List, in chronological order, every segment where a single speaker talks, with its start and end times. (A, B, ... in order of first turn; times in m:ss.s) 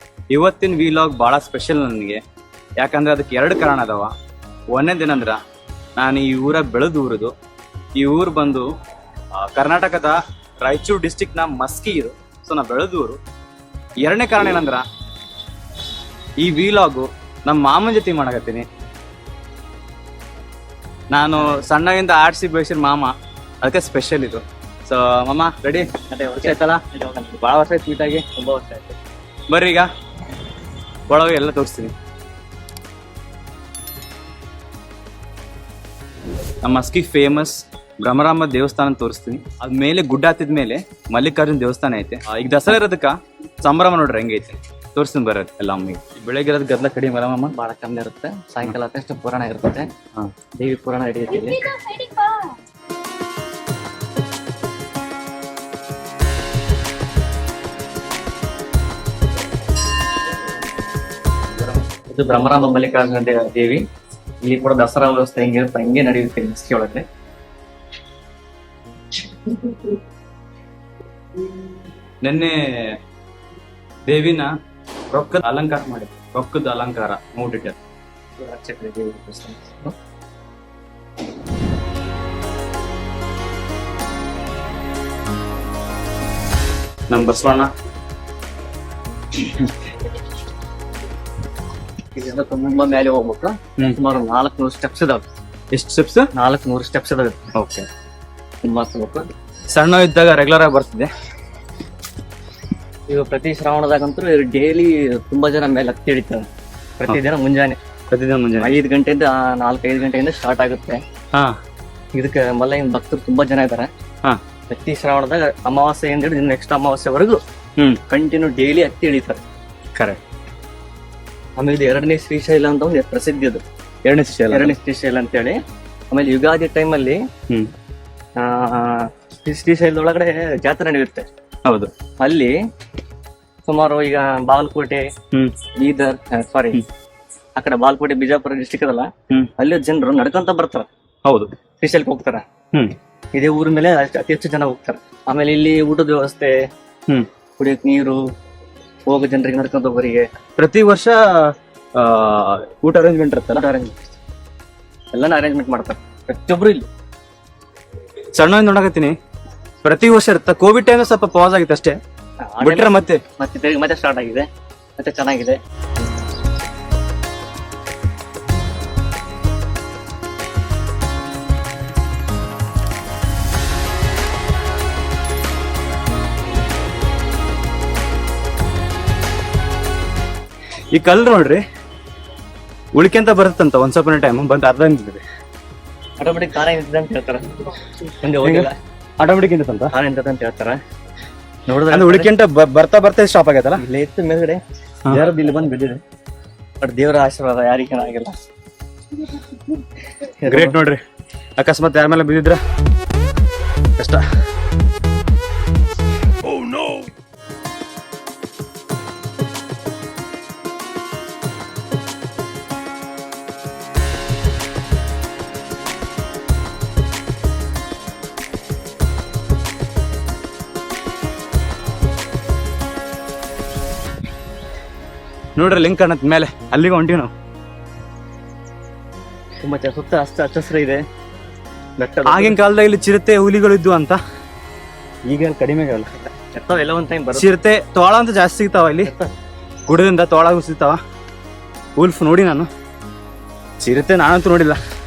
0:00.3-0:02.2 A
0:02.8-0:04.1 A
0:04.7-0:05.4 A
0:06.0-0:07.3 A
0:08.0-0:08.7 A
0:09.3-0:13.2 A
0:14.0-0:14.8 A
0:16.4-0:18.6 A
0:21.1-0:25.9 A
0:26.1-0:27.4 B
0:26.4-0:26.8 A
0:27.4-0:28.2 A
0:28.3-0:29.0 B
0:29.5-0:29.9 A
0:31.1-0:31.9 A
0:36.6-0:47.5 A
0:47.5-0:49.9 B
0:50.6-0:52.4 B
1:02.1-1:03.8 B
1:04.4-1:07.0 B
1:12.2-1:12.5 A
1:14.1-1:14.5 A
1:15.1-1:17.8 A
1:18.4-1:19.9 B
1:27.1-1:27.7 A
1:32.1-1:35.2 B
1:35.7-1:36.3 A
1:36.3-1:37.4 B
1:37.5-1:37.9 A
1:38.6-1:39.3 B
1:39.7-1:41.1 A
1:43.1-1:46.5 B
1:47.0-1:47.8 B
1:48.1-1:48.7 A
1:48.6-1:51.0 B
1:52.1-1:53.9 B
1:54.7-1:57.4 B
1:58.1-1:59.4 B
1:59.9-2:00.2 A
2:01.6-2:03.6 B
2:04.0-2:04.7 A
2:04.5-2:05.6 B
2:06.1-2:07.2 B
2:08.4-2:11.3 B
2:11.6-2:11.9 A
2:12.2-2:12.5 B
2:13.6-2:15.1 B
2:15.8-2:16.8 B
2:17.6-2:20.9 B
2:21.2-2:21.5 A
2:21.8-2:22.4 B
2:23.3-2:26.5 B
2:27.6-2:28.2 B
2:29.1-2:30.3 B
2:30.6-2:33.6 A
2:33.5-2:34.0 B
2:35.1-2:36.9 B
2:38.4-2:39.1 A
2:39.8-2:42.0 A
2:42.4-2:45.6 B
2:42.6-2:43.2 A
3:00.9-3:01.6 A
3:02.9-3:05.2 A
3:06.2-3:08.7 B
3:08.4-3:09.9 A
3:09.9-3:10.8 B
3:11.7-3:12.3 B
3:11.9-3:13.8 A
3:13.8-3:16.0 B
3:16.8-3:18.4 B
3:20.2-3:20.8 B
3:20.5-3:21.0 A
3:21.6-3:22.6 A
3:24.0-3:24.2 A
3:45.6-3:47.3 A
3:49.6-3:51.0 B
3:52.0-3:52.6 B
3:52.2-3:54.2 A
3:55.3-3:56.2 A
3:56.5-3:57.5 B
3:57.3-3:59.1 A
3:59.0-3:59.3 B
3:59.9-4:01.0 A
4:02.0-4:02.7 A
4:03.8-4:04.8 A